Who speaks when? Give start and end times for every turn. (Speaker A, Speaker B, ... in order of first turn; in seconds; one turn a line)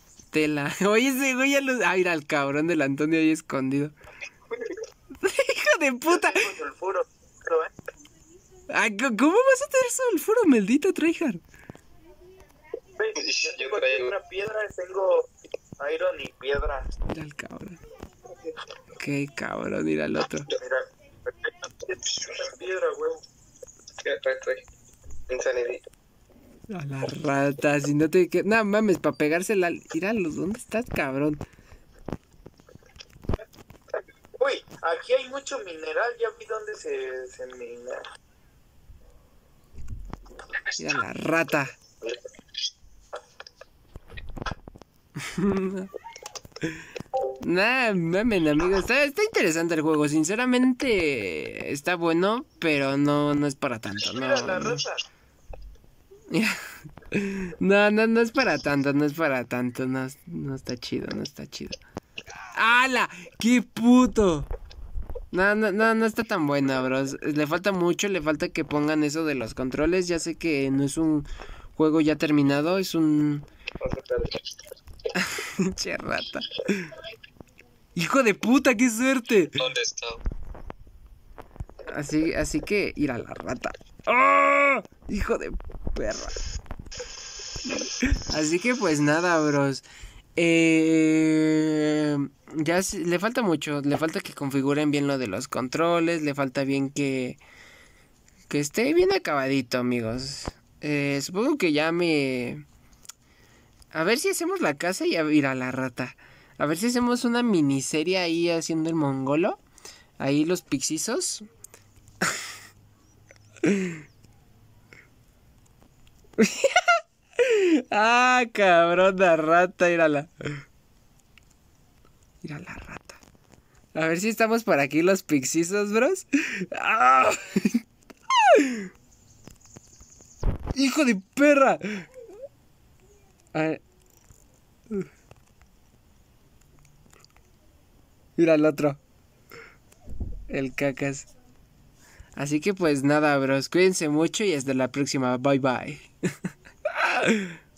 Speaker A: 0.3-3.9
Speaker A: 5.2-6.5
Speaker B: 6.1-7.7
Speaker A: 8.7-11.4
Speaker B: 13.0-16.9
Speaker C: 13.2-14.2
Speaker A: 17.1-17.8
Speaker A: 18.9-20.5
Speaker B: 20.5-23.2
Speaker C: 24.0-24.6
Speaker C: 25.3-25.8
Speaker A: 26.7-31.4
Speaker B: 34.4-38.0
Speaker A: 40.8-41.8
Speaker A: 45.2-45.9
Speaker A: 47.4-54.8
Speaker B: 54.1-55.0
Speaker A: 56.3-56.6
Speaker A: 57.1-61.8
Speaker A: 62.5-64.5
Speaker A: 65.3-73.5
Speaker C: 73.8-74.3
Speaker A: 75.1-76.9
Speaker A: 78.0-79.6
Speaker C: 79.8-80.2
Speaker A: 81.9-86.3
Speaker A: 87.7-89.8
Speaker A: 90.4-97.4
Speaker A: 98.5-102.6
Speaker A: 103.9-109.6
Speaker A: 110.2-111.5
Speaker A: 113.6-114.0
Speaker A: 116.4-120.3
Speaker A: 122.4-123.2
Speaker A: 124.0-127.8
Speaker A: 128.4-128.9
Speaker A: 130.7-132.1
Speaker A: 133.5-133.8
Speaker A: 138.4-139.0
Speaker A: 140.5-141.3
Speaker A: 142.4-146.1
Speaker A: 146.9-147.6